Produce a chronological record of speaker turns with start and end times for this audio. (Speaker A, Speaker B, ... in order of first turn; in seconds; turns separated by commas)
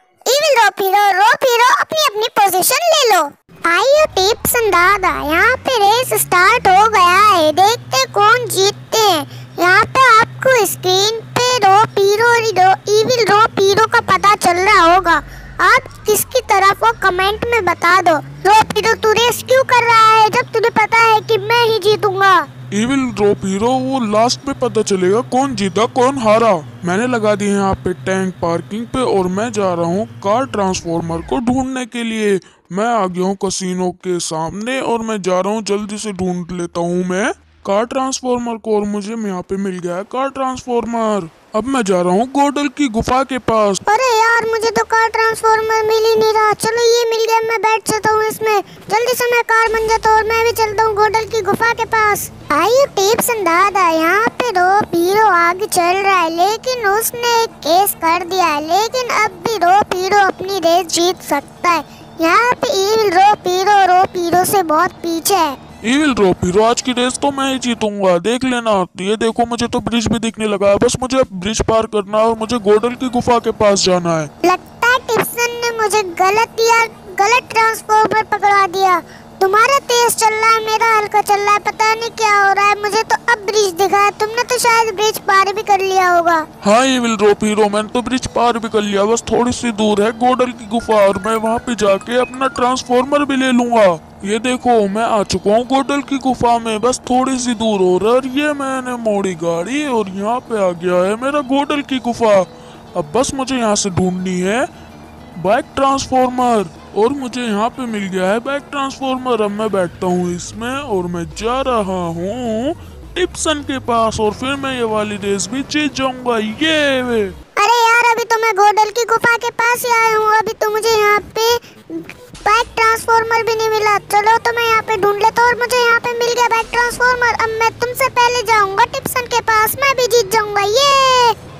Speaker A: 0.3-22.4, Speaker B: 22.7-43.8, Speaker A: 43.9-65.6, Speaker B: 65.8-74.3, Speaker A: 74.4-86.5, Speaker B: 86.6-104.7, Speaker B: 105.4-117.3, Speaker A: 117.6-131.3